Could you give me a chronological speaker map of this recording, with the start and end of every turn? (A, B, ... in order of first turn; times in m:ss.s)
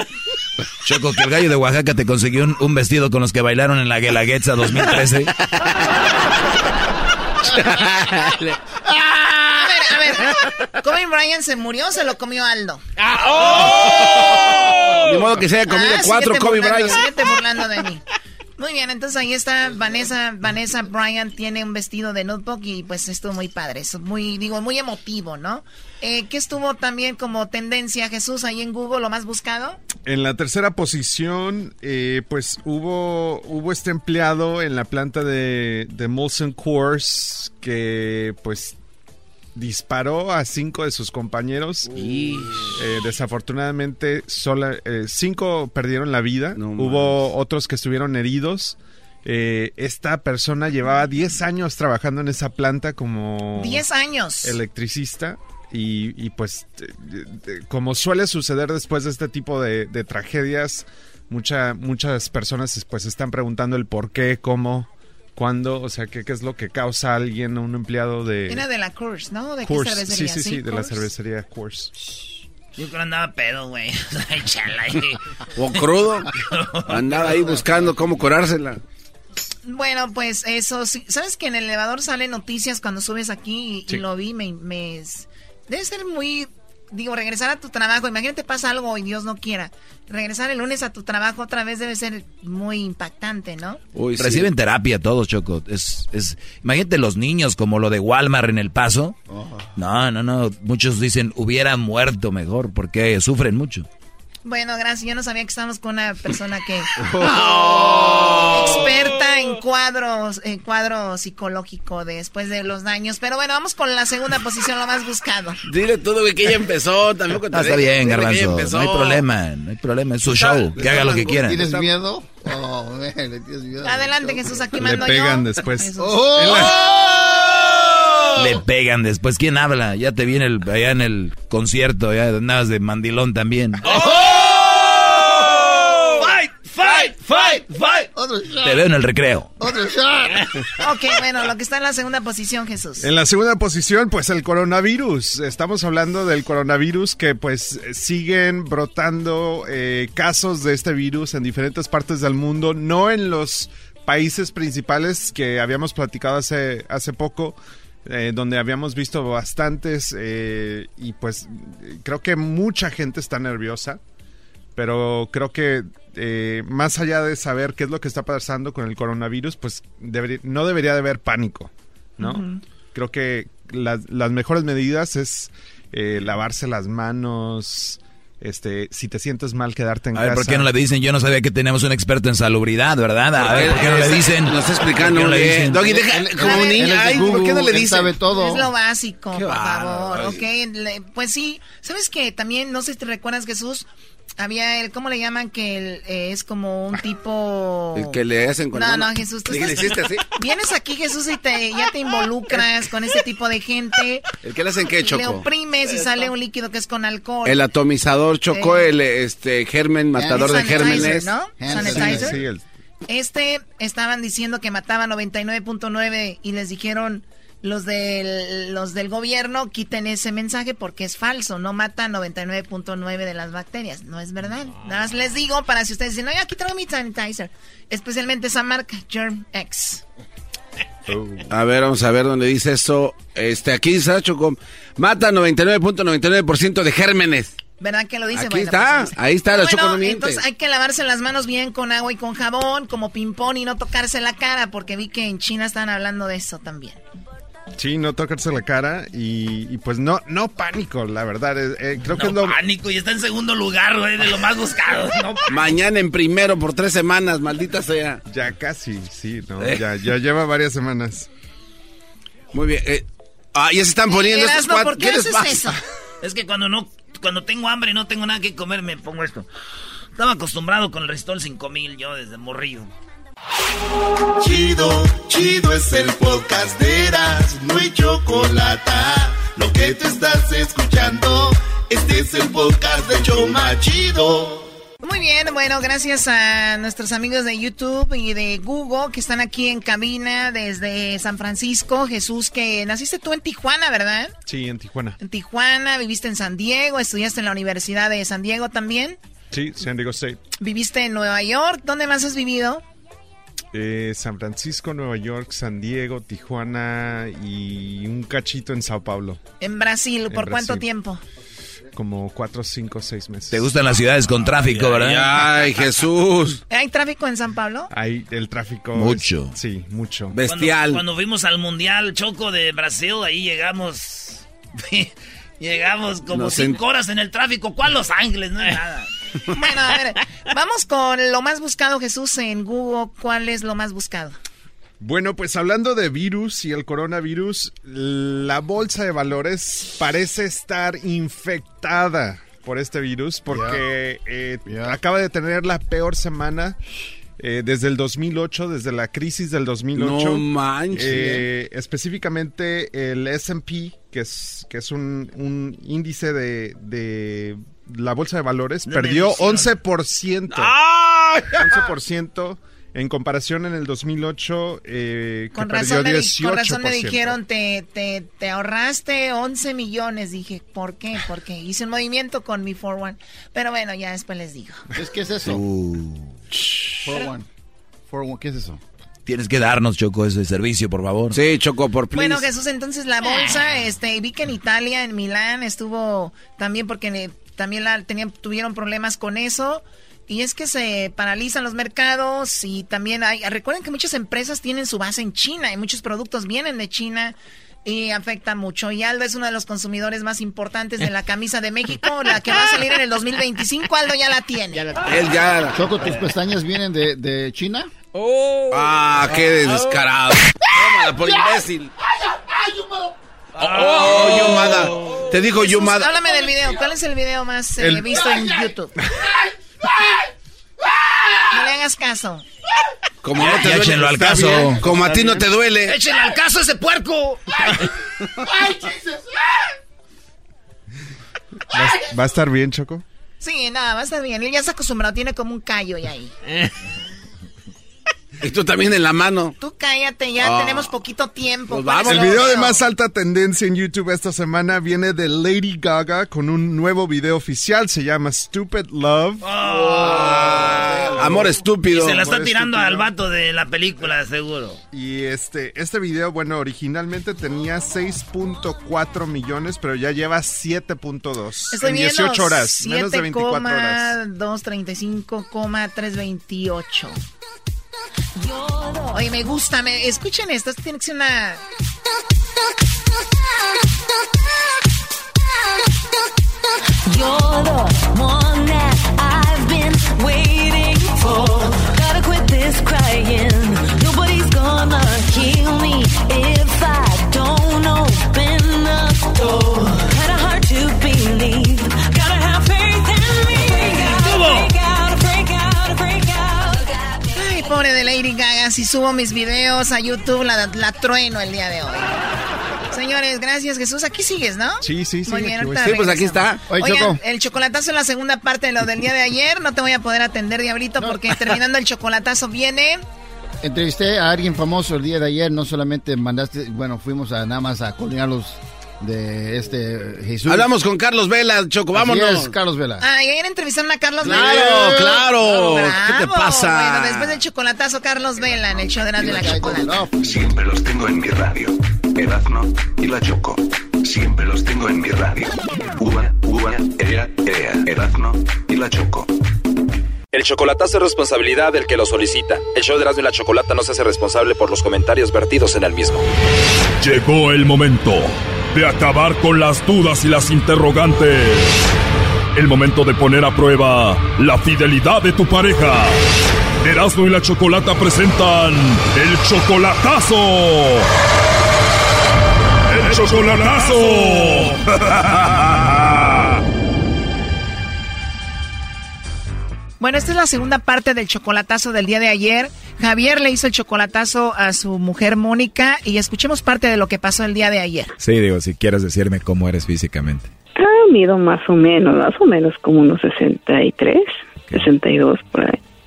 0:07.6-0:08.3 A
0:09.5-0:12.8 B
0:13.4-0:14.3 A
0:15.0-0:17.0 A
0:15.7-0:18.0 B
0:18.6-0:29.8 B
0:30.0-0:38.8 C
0:39.5-0:42.0 C
0:41.9-0:42.8 A
0:42.7-0:53.8 C
0:46.5-0:47.3 A
0:53.5-0:54.6 B
0:54.4-1:08.6 C
1:08.5-1:11.1 B
1:09.6-1:11.9 C
1:12.8-1:15.2 D
1:15.6-1:16.3 A
1:16.4-1:17.6 D
1:16.9-1:18.8 A
1:19.6-1:33.8 B
1:34.0-1:34.5 A
1:39.3-1:39.7 E
1:44.4-1:46.9 B
1:47.1-1:48.4 E
1:47.2-1:48.7 A
1:48.4-1:55.6 B
1:55.7-1:59.3 A
1:57.5-2:01.4 F
2:00.3-2:01.9 A
2:00.8-2:04.8 E
2:03.8-2:05.9 B
2:04.8-2:06.8 C
2:05.8-2:07.6 E
2:08.4-2:09.6 F
2:10.2-2:11.8 F
2:12.4-2:13.7 F
2:16.1-2:18.1 D
2:17.0-2:17.6 E
2:18.1-2:18.9 E
2:19.6-2:20.5 E
2:20.8-2:23.1 B
2:23.0-2:44.0 C
2:44.8-3:00.7 C
2:52.2-2:52.5 B
3:00.2-3:01.8 F
3:03.3-3:04.2 F
3:03.4-3:08.2 A
3:05.7-3:08.7 E
3:06.4-3:06.8 B
3:08.3-3:13.8 B
3:09.3-3:10.4 A
3:14.4-3:18.2 B
3:17.9-3:20.3 A
3:18.7-3:24.3 B
3:24.4-3:25.4 A
3:25.0-3:27.6 B
3:27.4-3:31.4 A
3:28.5-3:28.9 B
3:30.1-3:32.4 E
3:30.2-3:32.4 B
3:31.6-3:32.6 C
3:33.1-3:50.0 B
3:51.5-3:57.5 A
3:57.8-4:07.0 B
3:58.3-4:00.4 A
4:07.8-4:12.6 C
4:12.0-4:15.4 D
4:15.5-4:18.2 A
4:18.3-4:21.3 C
4:22.5-4:25.8 A
4:24.1-4:25.8 B
4:26.2-4:29.4 D
4:30.2-4:32.9 D
4:34.4-4:44.7 G
4:45.0-4:54.3 B
4:54.4-4:55.2 C
4:55.2-4:59.2 B
4:59.5-5:00.5 C
5:00.5-5:02.8 B
5:03.7-5:09.4 C
5:09.6-5:11.2 B
5:10.3-5:10.8 C
5:11.9-5:13.7 C
5:13.8-5:15.0 F
5:14.5-5:15.2 D
5:14.9-5:16.6 A
5:16.7-5:17.9 B
5:17.9-5:20.4 C
5:19.0-5:19.4 F
5:20.3-5:21.0 A
5:20.4-5:29.1 D
5:26.3-5:26.8 A
5:29.5-5:34.4 B
5:35.0-5:46.8 C
5:43.5-5:43.8 E
5:44.6-5:45.0 E
5:47.4-6:00.7 C
5:50.0-5:51.4 A
5:58.8-5:59.7 D
6:00.5-6:01.6 A
6:01.6-6:07.4 C
6:05.5-6:14.8 B
6:14.9-6:15.6 E
6:15.5-6:16.2 F
6:17.0-6:17.4 E
6:18.1-6:18.8 E
6:19.3-6:21.3 F
6:21.3-6:22.5 A
6:22.1-6:44.9 B
6:44.9-6:45.8 A
6:45.7-6:47.9 E
6:48.7-6:51.9 A
6:53.6-6:54.6 D
6:53.6-6:56.2 A
6:55.6-6:58.9 B
6:58.2-6:58.7 E
7:01.5-7:02.4 B
7:03.2-7:06.0 A
7:03.4-7:07.8 D
7:08.5-7:09.0 E
7:11.7-7:13.0 C
7:13.4-7:16.3 B
7:18.4-7:19.5 A
7:19.6-7:22.8 B
7:20.4-7:20.9 A
7:21.7-7:22.6 A
7:22.0-7:29.4 C
7:29.4-7:31.0 D
7:30.1-7:32.2 A
7:31.1-7:31.5 C
7:31.9-7:34.8 D
7:32.1-7:33.1 C
7:34.9-7:44.1 C
7:41.7-7:47.2 B
7:48.5-7:51.6 B
7:57.1-8:17.6 H
8:14.1-8:14.7 D
8:17.3-8:22.1 B
8:22.9-8:33.0 B
8:24.8-8:25.9 C
8:25.8-8:26.7 A
8:26.6-8:27.2 E
8:33.6-8:40.7 E
8:40.5-8:42.5 A
8:41.9-8:43.1 E
8:43.0-8:49.9 B
8:44.2-8:45.2 E
8:44.2-8:47.4 A
8:49.1-8:50.3 E
8:50.2-8:59.3 I
9:00.3-9:06.2 J
9:07.0-9:11.8 K
9:12.5-9:16.2 K
9:16.8-9:21.1 K
9:22.9-9:26.2 K
9:30.0-9:38.1 B
9:38.2-9:40.5 F
9:40.8-9:45.8 L
9:44.6-9:44.9 F